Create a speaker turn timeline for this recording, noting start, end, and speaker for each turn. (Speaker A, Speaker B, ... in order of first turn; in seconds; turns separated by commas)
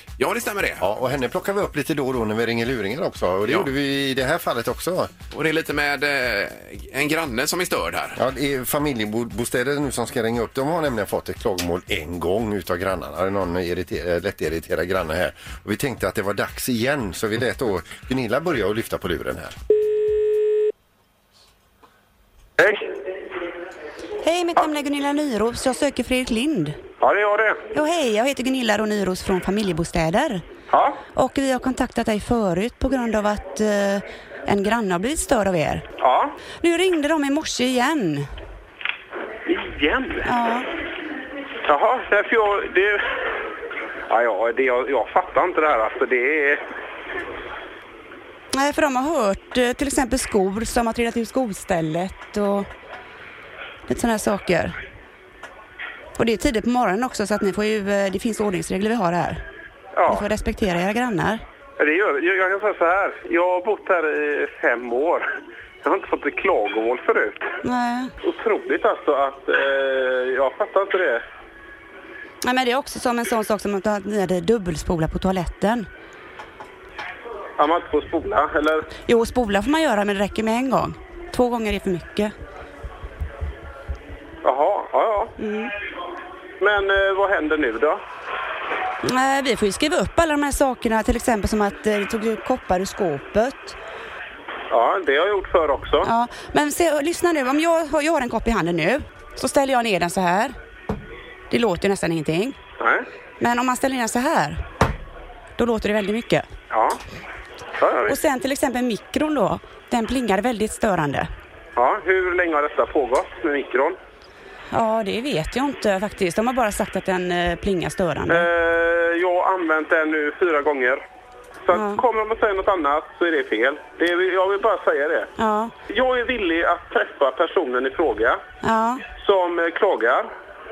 Speaker A: 0.2-0.8, Speaker B: 0.8-5.1, Speaker A: 5.3-8.2, Speaker B: 8.2-19.5, Speaker C: 22.6-22.9, Speaker D: 24.2-26.8, Speaker C: 27.0-27.6, Speaker D: 27.7-30.4, Speaker C: 30.7-31.0, Speaker D: 31.1-35.8, Speaker C: 36.0-36.3, Speaker D: 36.6-38.3, Speaker C: 39.5-40.3, Speaker D: 40.2-40.7, Speaker C: 41.6-43.2, Speaker C: 44.1-46.6, Speaker D: 48.5-52.7, Speaker D: 53.9-54.7, Speaker D: 56.2-59.4, Speaker C: 60.0-60.2, Speaker D: 60.1-61.4, Speaker C: 61.8-65.2, Speaker C: 65.8-67.4, Speaker D: 67.6-68.1, Speaker C: 68.2-71.2, Speaker D: 72.4-75.9, Speaker C: 77.6-78.9, Speaker D: 79.0-82.3, Speaker C: 84.4-85.3, Speaker D: 85.4-85.7, Speaker C: 86.6-88.0, Speaker D: 89.0-93.8, Speaker C: 94.7-96.1, Speaker D: 96.0-100.5, Speaker D: 101.5-102.6, Speaker C: 102.8-103.0, Speaker D: 103.4-104.6, Speaker D: 105.6-106.5, Speaker C: 106.7-107.0, Speaker C: 107.8-108.2, Speaker D: 108.1-111.3, Speaker C: 111.8-114.0, Speaker D: 114.7-118.5, Speaker C: 118.3-121.0, Speaker C: 121.7-125.3, Speaker D: 121.7-122.0, Speaker D: 125.4-125.7, Speaker C: 125.9-128.4, Speaker D: 128.6-129.0, Speaker C: 129.2-130.3